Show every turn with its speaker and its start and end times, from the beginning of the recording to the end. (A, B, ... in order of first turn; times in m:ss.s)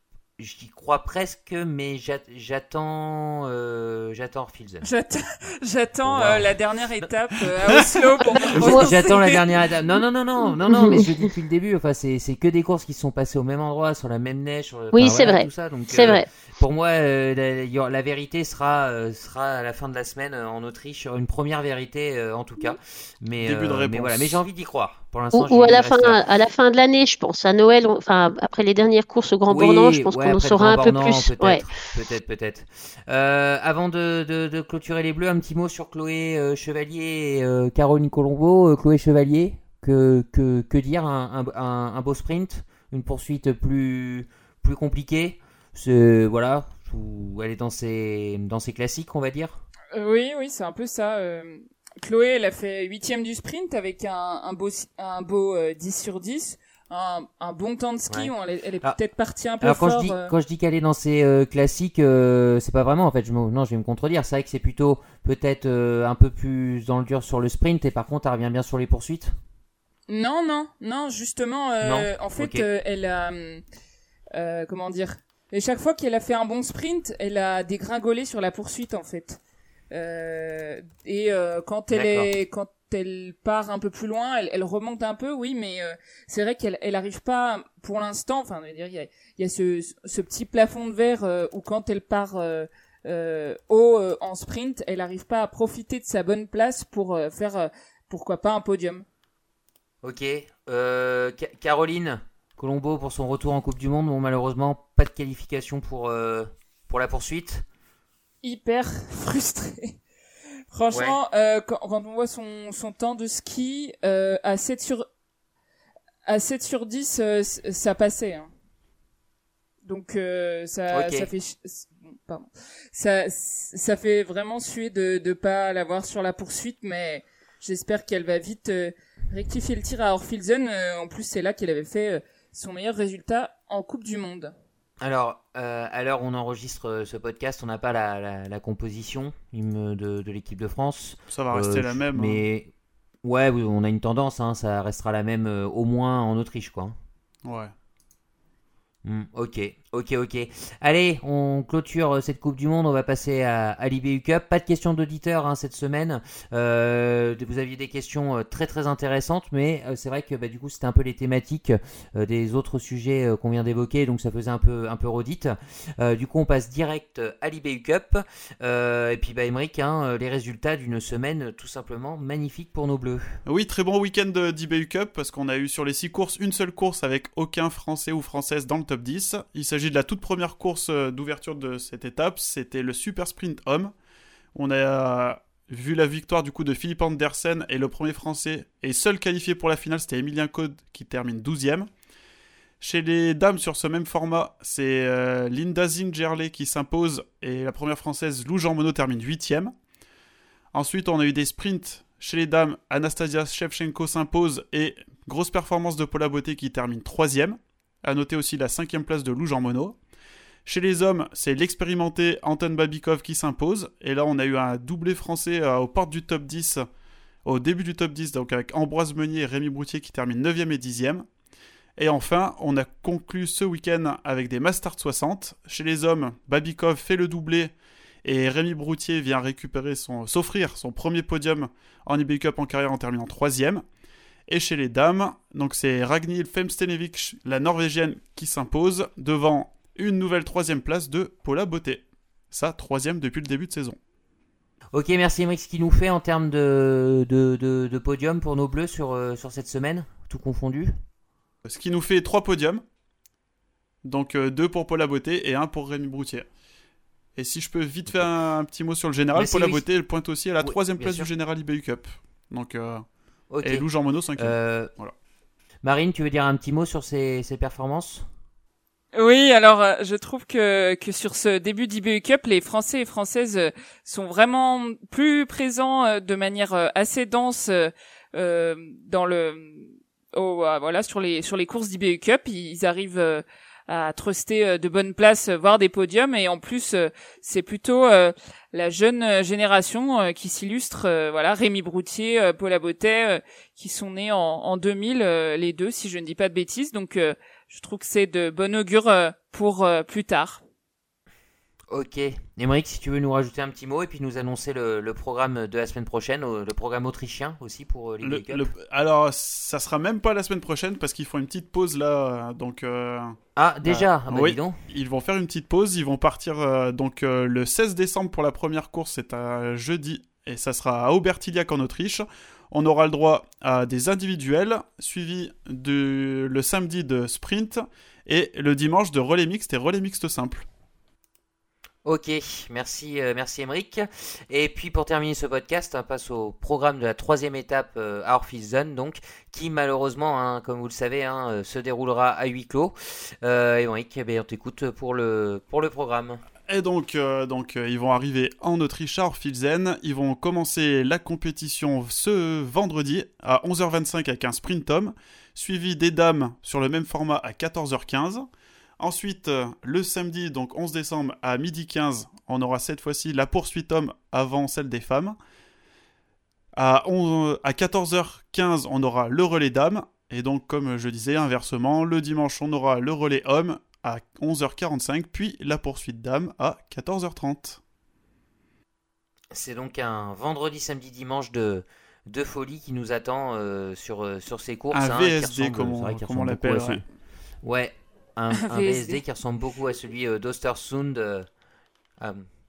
0:00.4-0:04.9 A
0:04.8-0:09.4 B
0:06.0-0:07.1 A
0:08.5-0:26.2 A
0:08.6-0:09.0 C
0:10.6-0:11.1 C
0:14.9-0:16.3 C
0:23.4-0:24.4 D
0:25.3-0:31.6 C
0:29.5-0:49.6 A
0:49.9-1:00.3 B
0:58.1-0:59.0 A
0:59.6-1:09.3 A
1:10.1-1:13.6 B
1:11.8-1:12.7 A
1:14.3-1:19.4 B
1:19.9-1:39.0 B
1:21.9-1:22.3 A
1:40.0-1:47.6 A
1:48.4-1:50.0 B
1:50.7-1:55.0 B
1:50.9-1:51.2 A
1:56.2-1:58.5 B
1:59.8-2:14.5 B
2:00.9-2:01.3 A
2:15.0-2:22.7 A
2:21.3-2:22.4 D
2:23.2-2:27.0 A
2:27.4-2:27.7 D
2:29.0-2:53.4 A
2:53.5-3:03.9 D
3:04.6-3:11.9 D
3:12.8-3:19.7 D
3:20.7-3:30.0 D
3:30.7-3:36.8 D
3:37.4-3:41.3 D
3:42.0-3:47.7 D
3:48.2-3:53.8 D
3:54.5-4:04.0 D
4:04.9-4:10.9 A
4:11.6-4:12.8 D
4:14.0-4:16.5 D
4:17.4-4:23.0 D
4:19.3-4:19.8 A
4:20.6-4:21.3 A
4:23.5-4:23.9 A
4:23.6-4:25.1 D
4:24.4-4:24.9 A
4:25.8-4:28.3 A
4:29.1-5:00.6 B
5:01.9-5:08.7 A
5:08.2-5:30.7 D
5:13.6-5:14.8 A
5:32.0-5:46.4 A
5:46.7-5:58.5 D
5:59.0-6:05.4 D
6:06.8-6:17.8 D
6:19.5-6:27.0 A
6:24.9-6:27.0 D
6:27.6-6:31.5 A
6:28.5-6:29.2 B
6:32.2-6:32.5 A